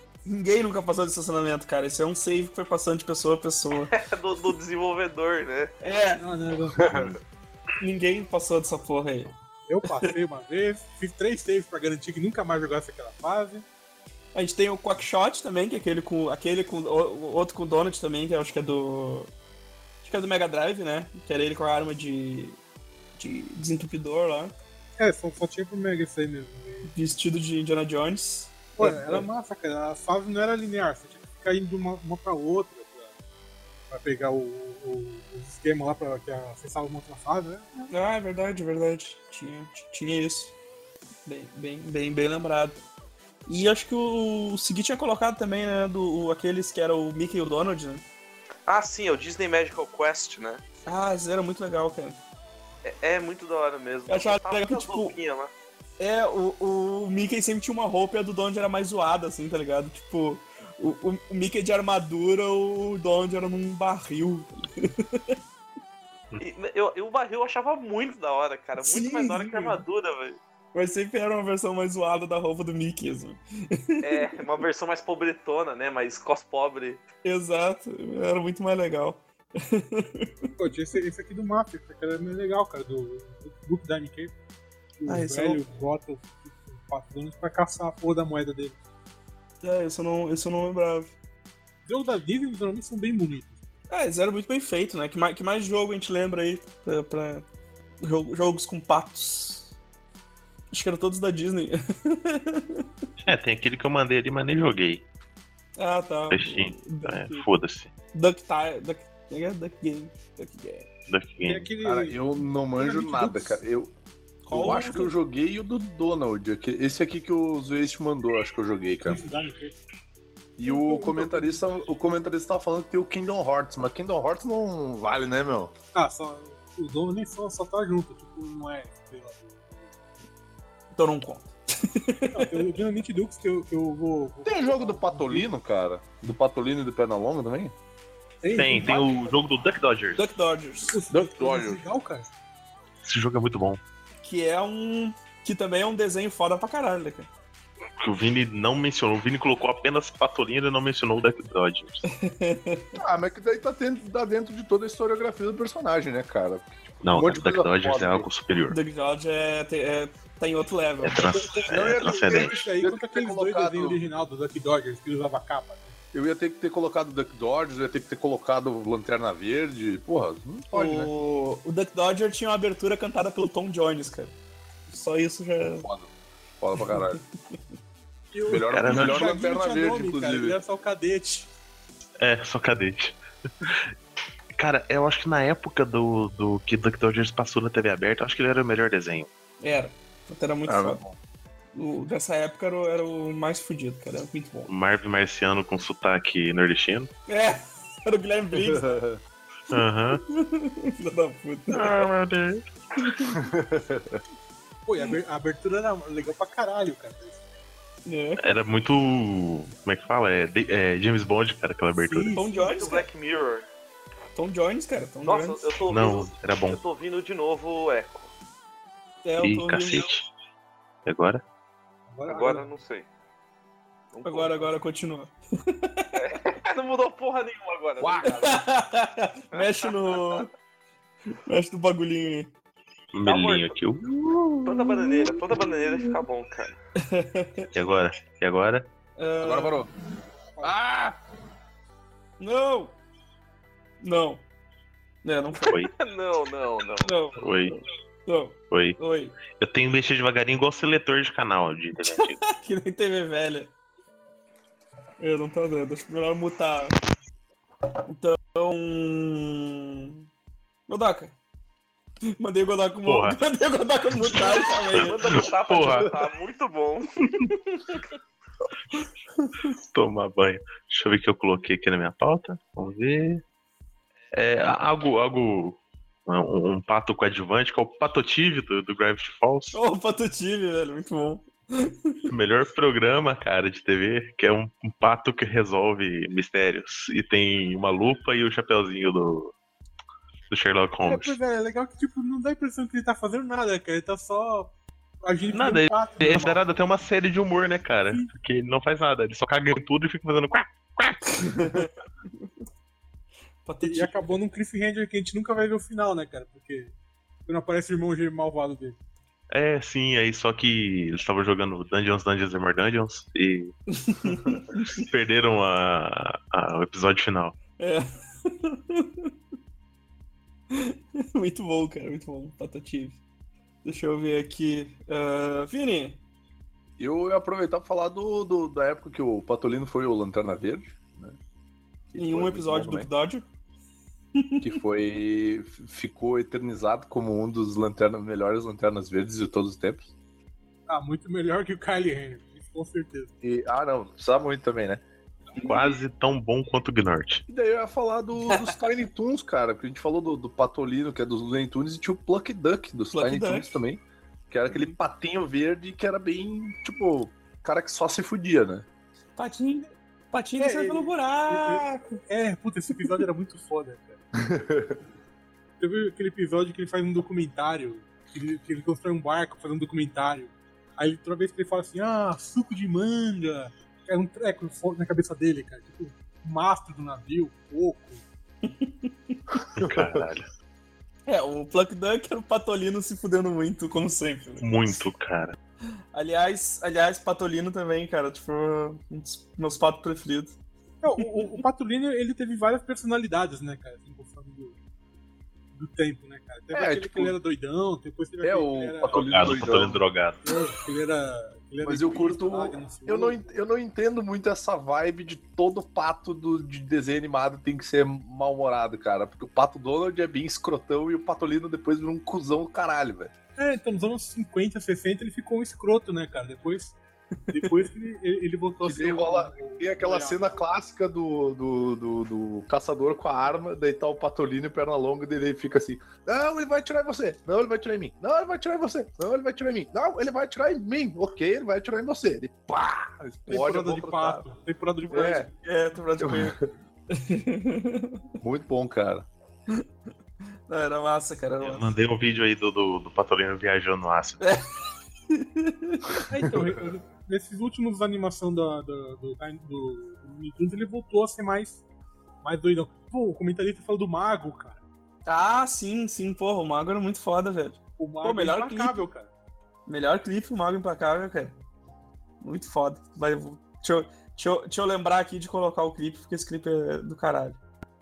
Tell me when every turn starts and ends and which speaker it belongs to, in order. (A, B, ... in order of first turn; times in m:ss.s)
0:00.2-0:03.9 A
0:03.9-0:05.7 B
0:05.8-0:06.2 A
0:06.2-0:07.2 C
0:06.8-0:07.2 D
0:07.8-0:09.3 A
0:09.7-0:13.6 C
0:14.3-0:19.3 A
0:20.0-0:22.6 A
0:23.2-0:24.5 A
0:25.0-0:26.9 C
0:26.9-0:29.3 A
0:28.7-0:33.1 C
0:33.9-0:37.9 C
0:37.9-0:40.5 A
0:41.2-0:42.8 A
0:43.5-0:48.0 A
0:48.7-0:50.6 B
0:50.8-0:52.2 A
0:52.8-0:55.5 B
0:54.1-0:55.2 A
0:56.0-1:05.4 A
1:06.4-1:10.4 B
1:08.8-1:09.8 A
1:10.7-1:14.3 A
1:14.0-1:17.0 B
1:17.2-1:20.5 A
1:20.5-1:24.3 C
1:25.0-1:28.8 C
1:25.0-1:25.6 A
1:29.6-1:31.1 A
1:31.8-1:33.6 C
1:33.9-1:37.4 A
1:38.0-1:39.7 A
1:40.7-1:42.8 A
1:43.2-1:45.0 E
1:45.8-1:47.5 A
1:46.3-1:47.9 E
1:48.1-1:50.9 A
1:51.1-1:51.7 E
1:51.4-1:53.6 C
1:51.8-1:53.9 D
1:54.4-1:55.1 A
1:54.5-1:59.2 D
1:59.0-1:59.7 C
2:00.6-2:05.7 D
2:00.6-2:01.6 C
2:05.9-2:09.9 C
2:11.0-2:12.7 A
2:12.3-2:15.5 C
2:14.4-2:17.7 D
2:18.4-2:19.3 C
2:18.5-2:20.2 E
2:20.2-2:21.0 A
2:20.9-2:22.3 C
2:21.1-2:21.8 D
2:23.0-2:23.8 E
2:24.2-2:27.3 A
2:28.0-2:32.0 E
2:32.1-2:33.0 A
2:33.0-2:38.3 D
2:37.0-2:38.8 E
2:38.7-2:41.3 A
2:41.0-2:42.7 E
2:41.4-2:46.0 C
2:41.7-2:44.0 D
2:46.1-2:51.1 D
2:50.7-2:54.3 A
2:54.9-2:55.9 A
2:55.6-2:57.2 D
2:58.3-3:01.5 C
2:58.5-3:00.6 D
2:58.7-2:59.4 E
3:02.2-3:03.8 E
3:04.6-3:09.3 E
3:09.6-3:11.0 A
3:10.6-3:11.2 D
3:11.7-3:14.7 A
3:14.7-3:17.1 E
3:17.3-3:19.0 A
3:18.5-3:19.2 D
3:19.7-3:20.2 E
3:20.3-3:22.1 A
3:21.7-3:22.6 E
3:23.0-3:23.4 A
3:23.3-3:24.2 D
3:24.8-3:27.4 C
3:28.0-3:28.4 A
3:28.4-3:32.3 E
3:32.0-3:32.7 C
3:32.3-3:33.1 A
3:32.6-3:33.7 B
3:34.3-3:35.7 A
3:35.2-3:38.3 B
3:35.9-3:36.8 E
3:39.2-3:40.1 A
3:39.4-3:40.3 E
3:41.0-3:41.4 E
3:42.1-3:42.7 C
3:42.3-3:43.1 B
3:44.1-3:44.7 B
3:44.2-3:46.4 A
3:46.2-3:48.6 B
3:48.0-3:48.5 D
3:48.3-3:50.5 A
3:49.5-3:50.4 B
3:51.4-3:52.5 A
3:53.1-3:54.1 E
3:53.2-3:53.7 B
3:54.2-3:55.7 A
3:54.6-3:56.8 B
3:57.0-3:57.7 A
3:57.7-3:58.9 E
3:59.2-3:59.8 A
3:59.4-3:59.9 D
4:00.6-4:01.2 D
4:02.4-4:03.0 A
4:04.0-4:04.4 A
4:05.2-4:05.8 A
4:05.7-4:07.1 B
4:07.0-4:09.4 A
4:07.4-4:07.8 E
4:08.7-4:12.4 E
4:12.1-4:13.7 A
4:15.2-4:17.0 A
4:18.0-4:20.2 A
4:20.9-4:21.3 A
4:22.4-4:25.2 A
4:23.0-4:23.4 E
4:24.2-4:26.1 E
4:24.9-4:27.1 B
4:29.4-4:29.7 A
4:29.9-4:33.4 E
4:34.3-4:39.8 E
4:39.7-4:42.2 A
4:42.3-4:49.5 E
4:50.5-4:51.4 E
4:51.0-4:56.6 C
4:55.5-5:01.8 E
5:01.4-5:02.5 A
5:03.6-5:04.3 A
5:03.8-5:06.9 C
5:07.4-5:09.0 C
5:09.5-5:13.7 E
5:13.9-5:15.0 A
5:14.9-5:17.6 E
5:17.8-5:19.3 A
5:20.7-5:23.2 A
5:23.8-5:26.2 A
5:27.0-5:31.4 D
5:32.1-5:33.1 D
5:32.2-5:33.4 A
5:34.3-5:34.7 A
5:34.6-5:40.1 D
5:40.9-5:43.3 C
5:43.4-5:45.0 D
5:45.6-5:47.4 E
5:47.5-5:58.8 D
5:53.1-5:53.7 A
5:59.4-6:02.1 A
6:00.6-6:04.2 C
6:04.4-6:05.0 D
6:05.8-6:18.2 C
6:18.6-6:19.4 A
6:19.8-6:20.5 E
6:19.8-6:20.2 D
6:21.2-6:24.7 A
6:24.6-6:25.5 E
6:26.1-6:30.5 A
6:31.0-6:34.8 C
6:31.2-6:31.6 A
6:35.7-6:39.7 C
6:36.7-6:37.3 D
6:38.4-6:40.0 D
6:39.1-6:40.4 E
6:40.4-6:43.5 C
6:41.8-6:53.3 D
6:53.6-6:57.0 C
6:57.5-7:00.6 C
6:58.8-7:14.4 D
7:13.5-7:15.5 C
7:15.1-7:15.5 D
7:15.1-7:16.6 A
7:16.2-7:16.6 D
7:17.1-7:18.2 A
7:18.4-7:19.2 D
7:20.7-7:21.9 A
7:21.6-7:24.4 E
7:24.4-7:24.6 A
7:25.3-7:26.3 A
7:26.3-7:31.8 C
7:26.4-7:26.8 D
7:32.4-7:34.8 C
7:35.2-7:39.0 A
7:38.0-7:39.3 C
7:39.9-7:41.6 A
7:42.4-7:47.6 A